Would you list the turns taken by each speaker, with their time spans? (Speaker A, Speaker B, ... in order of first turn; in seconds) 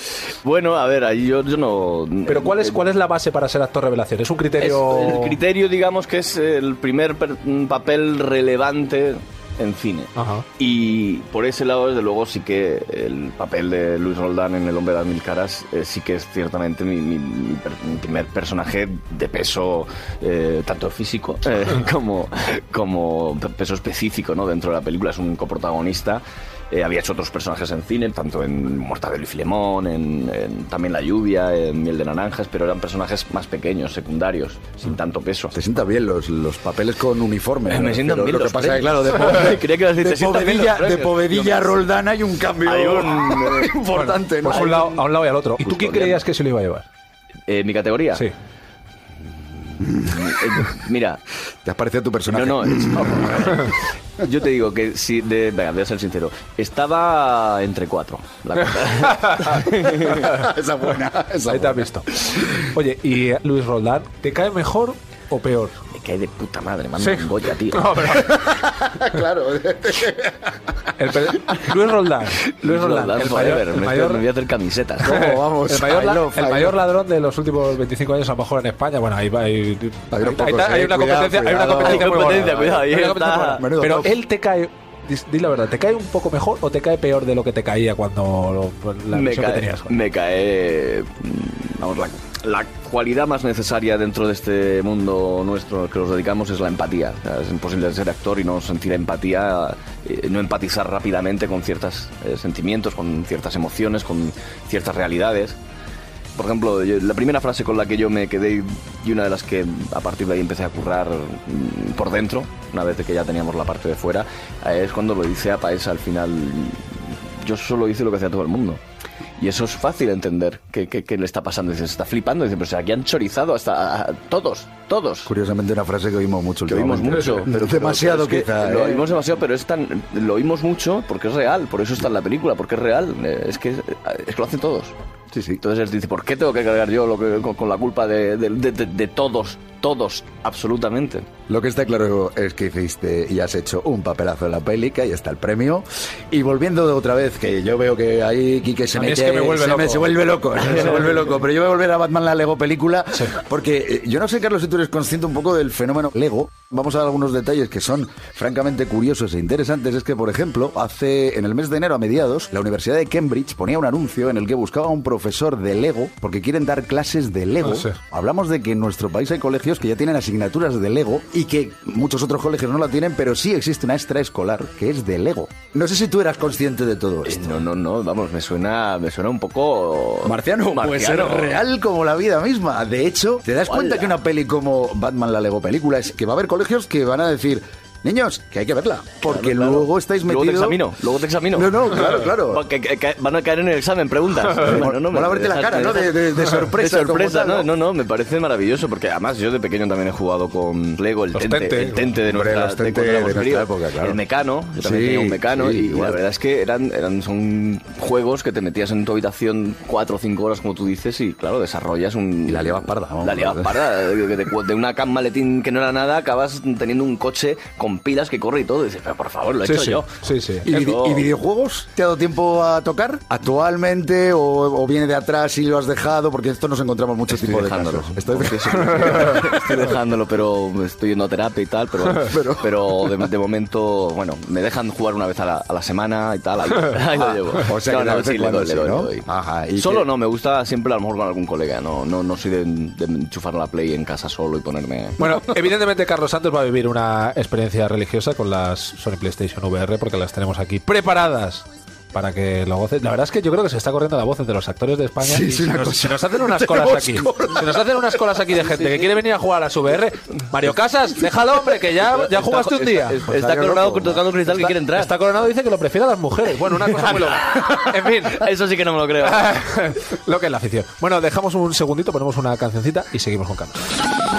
Speaker A: 0.4-2.8, 4.6-35.5, 37.7-41.8, 42.6-43.8, 44.4-45.1, 45.6-46.2, 47.5-48.2, 49.9-51.2, 52.3-60.3, 65.9-68.0, 72.6-75.2, 81.8-83.6, 89.1-105.6, 106.3-118.8, 119.4-125.3, 126.7-134.9, 135.6-141.3, 150.6-151.1, 177.2-181.6, 183.7-184.2, 189.2-220.1, 220.7-221.3, 227.3-245.2, 262.0-265.1, 267.0-269.5
Speaker B: 2.2-5.3, 10.1-10.4, 43.9-46.9, 59.2-59.7, 61.5-65.8, 67.0-68.5, 71.0-74.2, 75.0-90.0, 148.9-151.0, 167.6-167.9, 201.3-202.1, 219.6-220.7, 245.2-263.5, 264.5-268.4, 269.2-273.8
Speaker C: 35.5-44.8, 51.6-53.5, 60.0-61.9, 68.2-70.6, 75.0-76.8, 80.1-82.5, 83.6-84.2, 125.2-129.1, 135.3-135.6, 141.5-177.6, 180.2-190.8, 191.5-192.6, 194.6-197.7, 202.3-204.2, 204.8-206.2, 212.4-213.7, 220.7-229.5, 232.2-233.1, 237.1-240.1, 255.2-258.1, 263.3-264.2